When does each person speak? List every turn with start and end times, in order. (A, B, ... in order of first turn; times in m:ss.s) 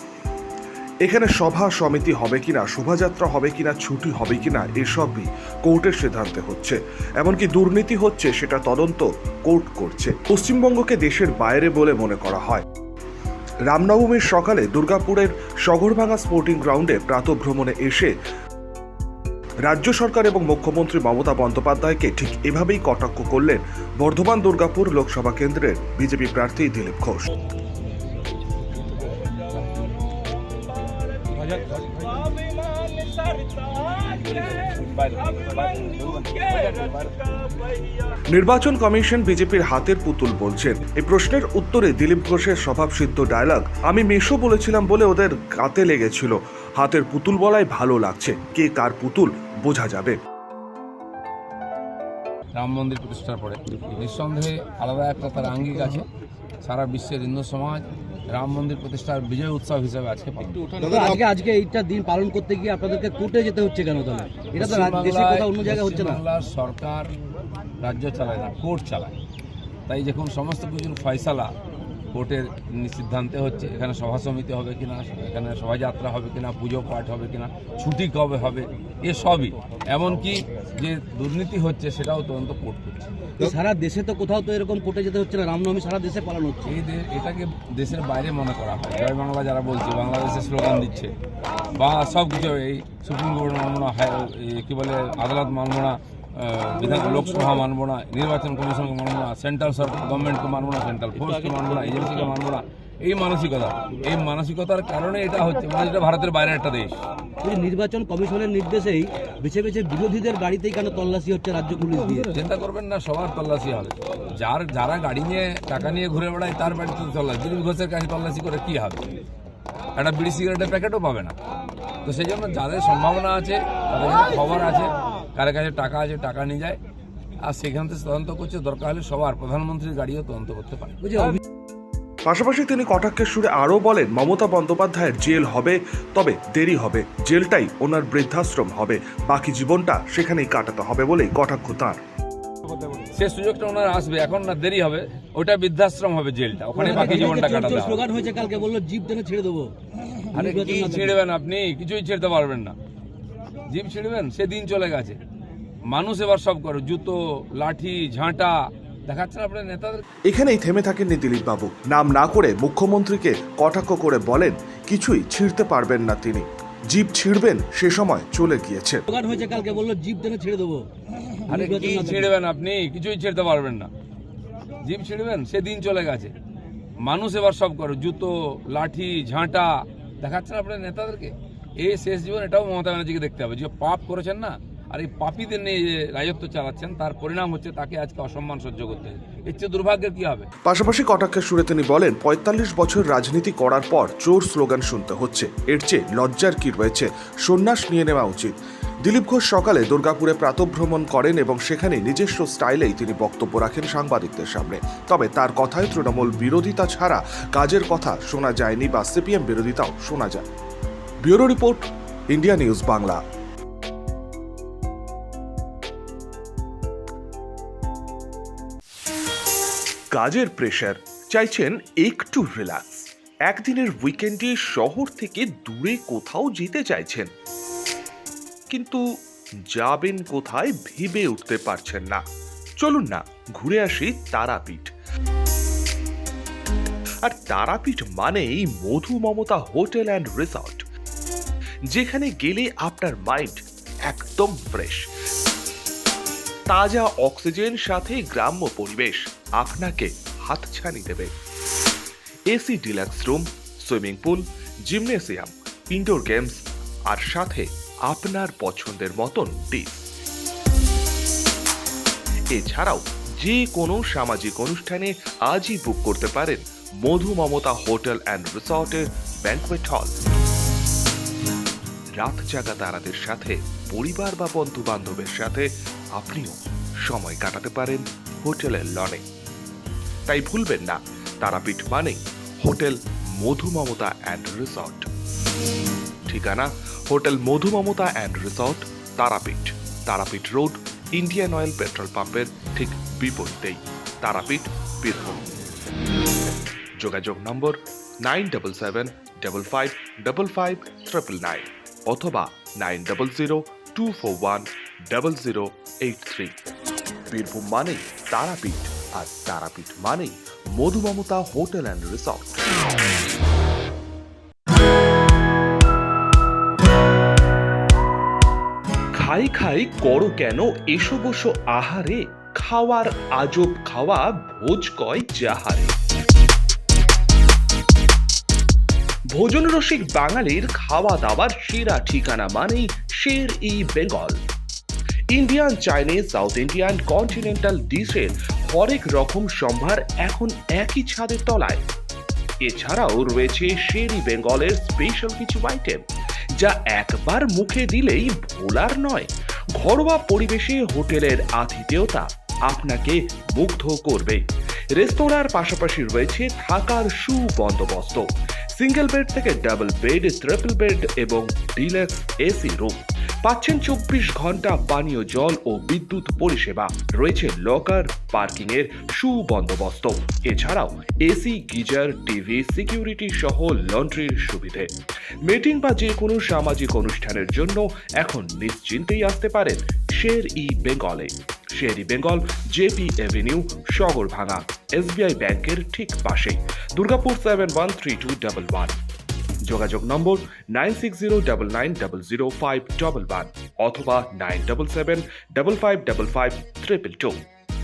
0:01.0-0:12.6 A
0:13.7-0:18.1 A
0:19.7-0:27.3 A
0:32.8-0:37.3 B
0:38.3-0:50.2 A
0:52.6-0:56.1 B
0:56.6-1:00.8 B
1:00.8-1:06.2 C
1:04.6-1:07.1 B
1:07.8-1:09.1 B
1:09.9-1:11.5 B
1:12.1-1:23.1 B
1:23.4-1:26.7 C
1:26.7-1:31.1 B
1:31.8-1:47.0 B
1:47.4-1:52.4 C
1:52.0-1:59.0 B
2:00.0-2:01.4 B
2:02.0-2:06.8 B
2:07.4-2:11.3 B
2:11.0-2:11.4 C
2:12.3-2:22.0 A
2:23.1-2:28.0 B
2:26.8-2:29.7 C
2:30.3-2:31.2 C
2:30.4-2:32.8 B
2:33.7-2:35.2 B
2:35.9-2:40.0 B
2:40.3-2:49.0 A
2:49.1-2:50.8 C
2:51.4-2:52.3 C
2:51.5-2:53.9 B
2:54.8-2:56.3 B
2:57.0-3:10.5 B
3:10.6-3:30.5 A
3:31.2-3:33.2 A
3:40.1-3:47.3 A
3:48.7-3:49.0 A
3:49.7-3:52.2 A
3:52.8-3:54.9 A
3:57.2-4:00.8 A
4:01.9-4:05.1 A
4:06.7-4:11.3 A
4:12.5-4:20.1 A
4:22.5-4:30.1 A
4:32.2-4:39.2 A
4:40.3-4:45.1 A
4:46.3-4:55.4 A
4:57.0-5:06.6 A
5:07.3-5:12.9 A
5:19.2-5:26.0 A
5:29.3-5:34.4 A
5:35.3-5:41.8 A
5:42.6-5:46.0 A
5:46.6-5:54.4 A
5:55.0-6:14.9 A
6:15.5-6:29.0 A
6:29.7-6:37.4 A